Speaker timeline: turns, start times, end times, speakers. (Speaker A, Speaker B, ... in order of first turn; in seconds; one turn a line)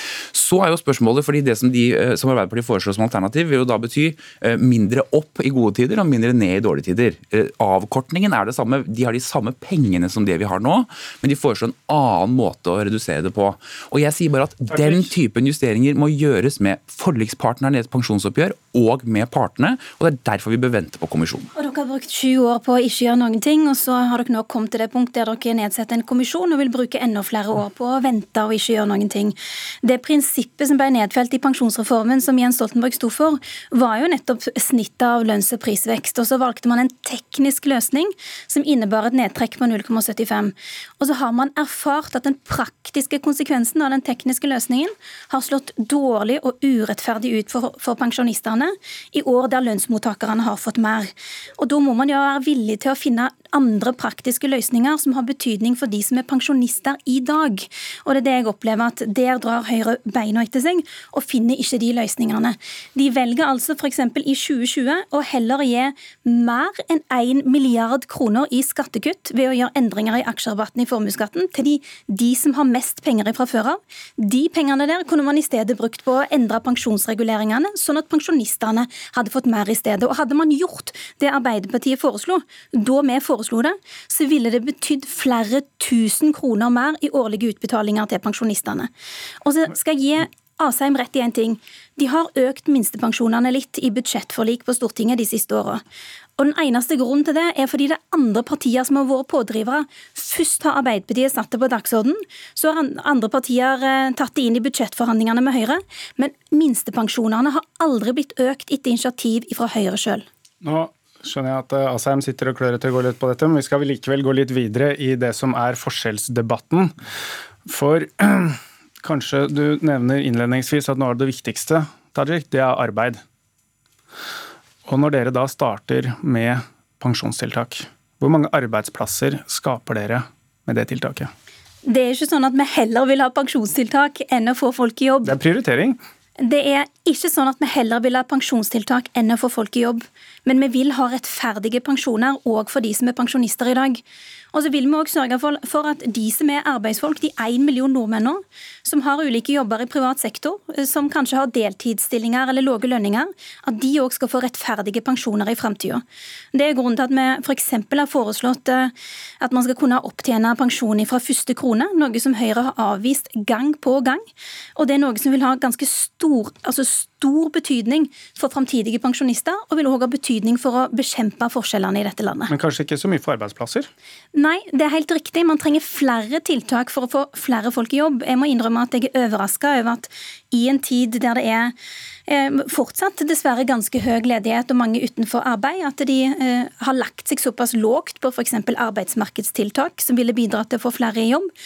Speaker A: 0.3-21.5
Speaker B: 21.6-88.9
Speaker B: 89.4-95.8
Speaker B: 96.4-110.2
Speaker C: 110.6-116.9
Speaker C: 117.7-123.2
Speaker C: 124.9-131.3
Speaker B: 131.8-135.3
Speaker C: 135.2-136.0
Speaker B: 136.4-144.0
Speaker B: 144.5-172.5
Speaker C: 172.5-173.9
Speaker B: 174.3-181.7
Speaker B: 182.3-191.5